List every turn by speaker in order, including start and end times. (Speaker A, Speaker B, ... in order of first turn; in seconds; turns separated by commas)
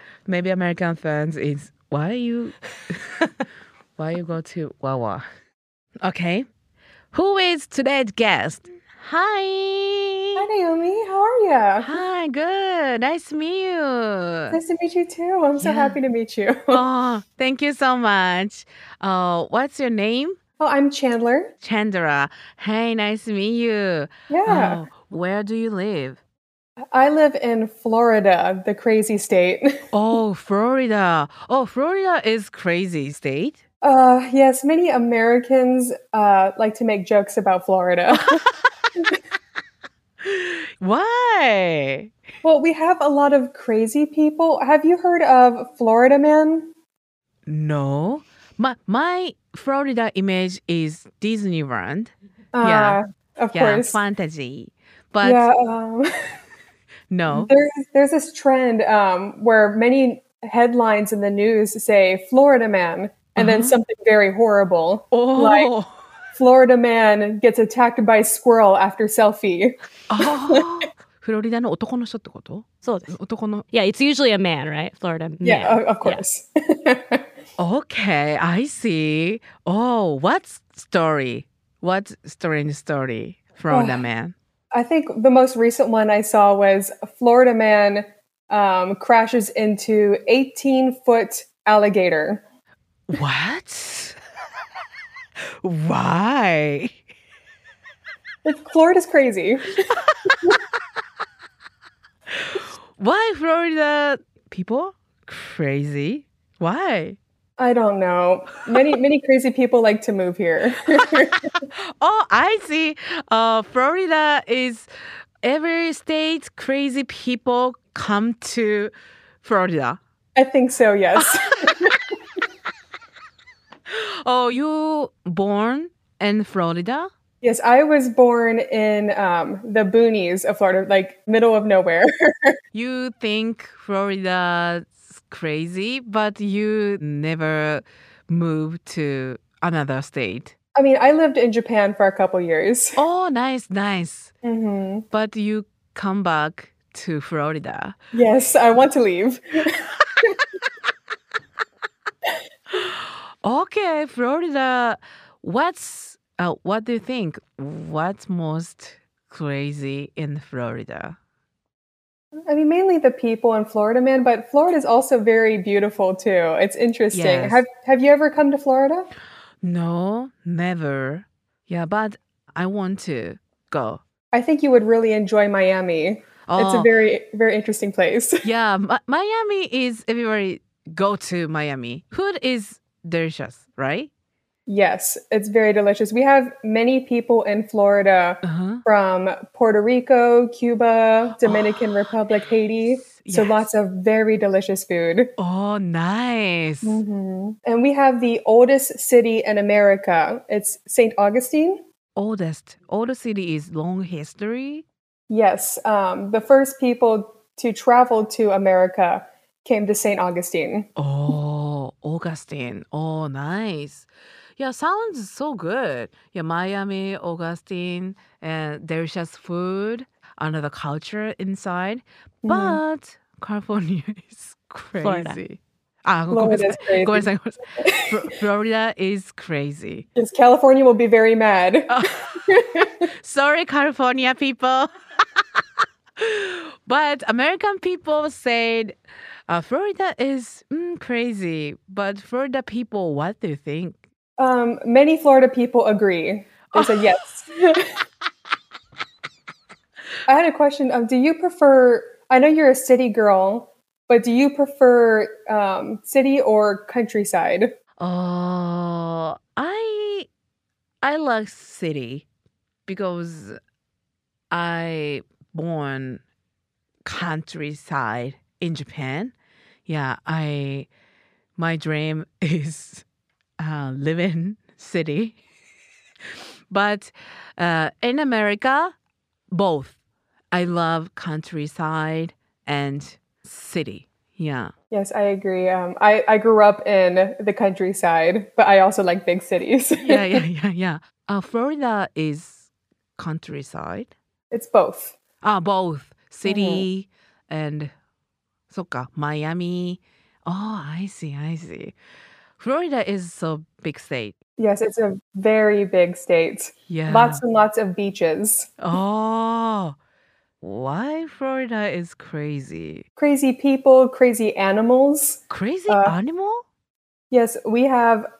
Speaker A: 0.2-3.0, Speaker A: 4.0-5.2, Speaker A: 6.0-6.5, Speaker A: 7.1-10.4, Speaker B: 10.3-12.0, Speaker A: 11.8-14.6, Speaker B: 14.5-16.8, Speaker A: 15.6-15.9, Speaker A: 16.7-20.4, Speaker B: 20.6-21.5, Speaker A: 21.6-26.2, Speaker B: 24.3-24.8, Speaker B: 26.9-29.8, Speaker A: 29.9-33.6, Speaker B: 33.8-38.4, Speaker A: 38.1-38.7, Speaker A: 40.2-42.1, Speaker B: 42.4-46.7, Speaker A: 47.5-53.0, Speaker B: 52.5-54.0, Speaker A: 53.5-55.5, Speaker B: 55.2-56.1, Speaker A: 57.1-57.5, Speaker B: 57.3-65.7, Speaker A: 63.4-63.8, Speaker A: 65.1-65.9, Speaker B: 66.3-70.6, Speaker A: 70.1-73.6, Speaker C: 72.8-73.1, Speaker C: 73.7-76.2, Speaker B: 75.4-77.2, Speaker A: 77.6-84.3, Speaker B: 83.7-84.0, Speaker B: 84.7-92.4, Speaker A: 93.1-94.2, Speaker A: 95.6-97.0, Speaker B: 98.4-100.6, Speaker A: 102.3-107.2, Speaker B: 107.6-111.5, Speaker A: 112.0-114.9, Speaker A: 115.4-120.0, Speaker B: 120.3-122.0, Speaker A: 121.2-121.9, Speaker A: 123.9-127.1, Speaker B: 127.4-132.6, Speaker A: 132.7-140.5, Speaker B: 140.7-143.0, Speaker A: 143.0-144.3, Speaker B: 144.4-145.1, Speaker A: 145.1-148.0, Speaker B: 148.1-150.4, Speaker A: 152.7-161.2, Speaker B: 162.4-169.1, Speaker A: 167.1-167.6, Speaker A: 169.6-174.0, Speaker B: 174.3-178.4, Speaker A: 176.5-176.9, Speaker A: 178.4-184.1, Speaker B: 184.7-195.3, Speaker A: 188.4-188.8, Speaker A: 191.4-191.9, Speaker A: 193.2-193.7, Speaker A: 195.4-197.0, Speaker B: 196.8-201.8, Speaker A: 202.2-204.8, Speaker B: 205.3-210.9, Speaker A: 211.0-230.1, Speaker B: 222.4-222.8, Speaker C: 225.0-225.4, Speaker B: 226.3-228.3, Speaker B: 230.2-233.1, Speaker A: 231.9-232.4, Speaker A: 233.2-234.9, Speaker A: 236.2-238.9, Speaker A: 239.5-244.0, Speaker B: 244.4-248.0, Speaker A: 246.7-247.0, Speaker B: 250.3-257.7, Speaker A: 258.0-260.3, Speaker A: 261.0-262.3, Speaker A: 262.9-263.6, Speaker A: 264.5-266.2, Speaker A: 267.0-269.3, Speaker A: 269.9-270.9, Speaker A: 271.6-273.0, Speaker A: 273.6-275.4, Speaker A: 276.7-278.9, Speaker A: 279.5-280.0, Speaker A: 280.5-284.7, Speaker B: 284.9-290.4, Speaker A: 290.0-294.1, Speaker B: 294.5-295.1, Speaker A: 295.4-297.9, Speaker B: 296.4-296.9, Speaker A: 298.7-301.9, Speaker A: 302.6-304.3, Speaker B: 304.6-308.7, Speaker A: 306.9-307.4, Speaker A: 308.8-310.0, Speaker A: 310.6-313.1, Speaker B: 313.2-316.1, Speaker A: 315.5-316.6, Speaker B: 317.3-318.3